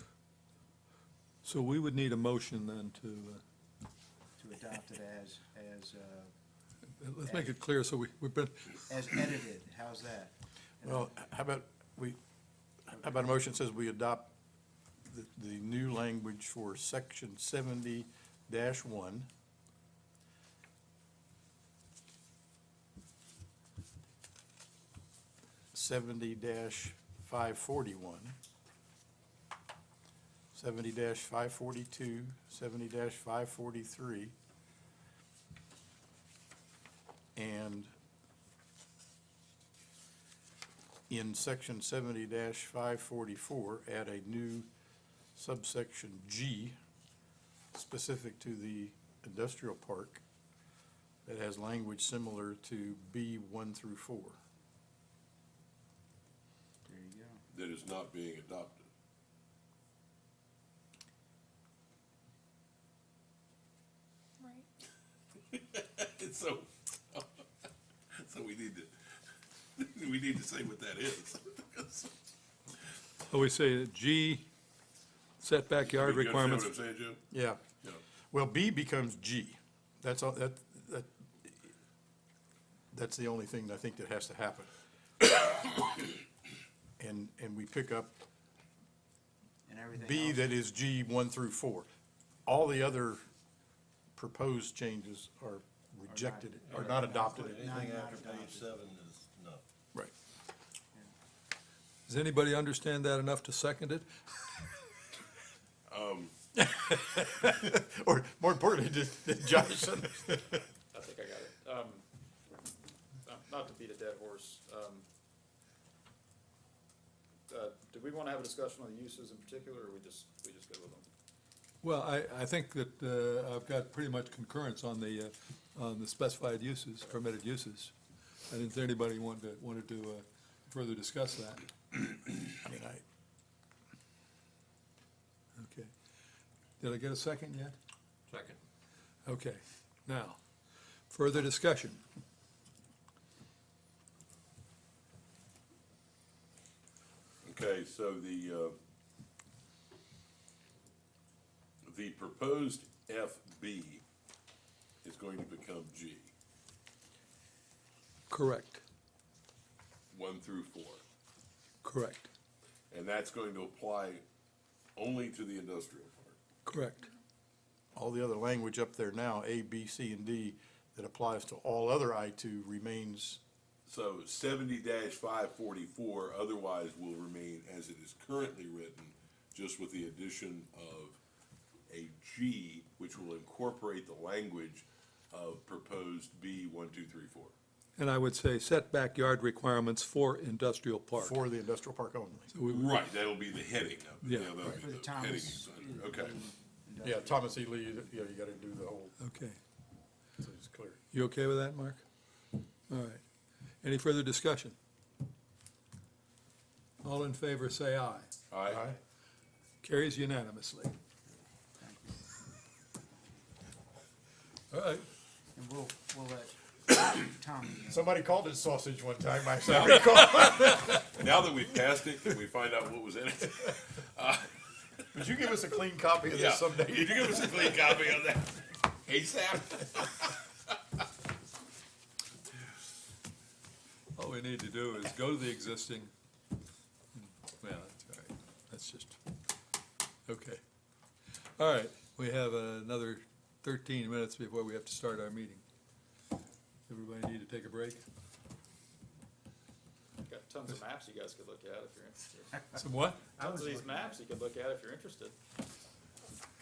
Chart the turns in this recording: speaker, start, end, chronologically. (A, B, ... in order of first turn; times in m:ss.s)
0:01.4-0:03.4 A
0:04.4-0:06.3 B
0:07.0-0:08.8 A
0:07.2-0:07.6 B
0:08.9-0:11.2 B
0:10.8-0:12.2 C
0:12.9-0:14.3 C
0:15.0-0:19.3 C
0:25.7-0:28.4 C
0:30.5-0:34.3 C
0:37.4-0:37.9 C
0:41.1-0:44.7 C
0:45.3-0:46.8 C
0:47.7-0:50.2 C
0:51.2-0:54.4 C
0:56.8-0:57.4 B
0:57.5-0:58.9 D
1:04.4-1:04.6 E
1:05.5-1:07.4 D
1:08.1-1:08.9 D
1:09.8-1:12.1 D
1:13.3-1:14.4 A
1:15.4-1:16.7 A
1:15.8-1:17.2 D
1:17.3-1:17.6 C
1:18.3-1:21.7 C
1:22.9-1:24.7 C
1:27.0-1:28.1 C
1:29.6-1:30.6 B
1:30.0-1:31.9 C
1:32.4-1:33.2 C
1:34.2-1:37.7 C
1:36.1-1:38.8 B
1:36.7-1:39.6 F
1:42.1-1:44.1 A
1:45.9-1:46.3 D
1:46.6-1:50.6 C
1:50.9-1:52.0 E
1:53.2-1:55.0 E
1:57.5-2:01.1 E
2:01.8-2:07.9 A
2:08.5-2:12.2 A
2:12.6-2:13.0 C
2:15.6-2:15.9 A
2:16.8-2:17.8 A
2:19.2-2:20.4 A
2:21.1-2:22.0 A
2:27.4-2:28.8 D
2:31.8-2:34.0 D
2:35.0-2:36.3 D
2:38.3-2:38.8 A
2:40.1-2:41.0 D
2:41.8-2:42.3 A
2:42.9-2:44.2 D
2:45.0-2:46.4 D
2:46.6-2:47.1 A
2:47.9-2:53.4 C
2:53.8-3:01.2 D
3:01.9-3:07.5 D
3:08.0-3:11.4 A
3:11.2-3:12.5 C
3:12.5-3:13.0 A
3:12.7-3:16.4 D
3:14.2-3:14.6 A
3:14.6-3:17.7 B
3:17.0-3:19.2 C
3:19.2-3:19.6 A
3:20.4-3:21.0 C
3:21.1-3:22.0 A
3:22.9-3:23.2 A
3:23.8-3:24.7 A
3:27.0-3:28.3 A
3:28.5-3:28.9 D
3:28.6-3:29.0 C
3:29.8-3:30.9 A
3:31.8-3:32.3 B
3:34.7-3:35.0 A
3:35.5-3:38.3 B
3:37.9-3:41.0 C
3:41.1-3:44.5 D
3:45.1-3:47.8 C
3:46.3-3:50.3 D
3:47.3-3:48.4 F
3:54.2-3:56.1 A
3:57.1-3:59.2 A
4:00.3-4:00.6 A
4:01.4-4:05.6 A
4:06.9-4:08.0 A
4:10.2-4:12.6 E
4:12.7-4:13.4 A
4:13.4-4:14.2 B
4:13.4-4:15.4 E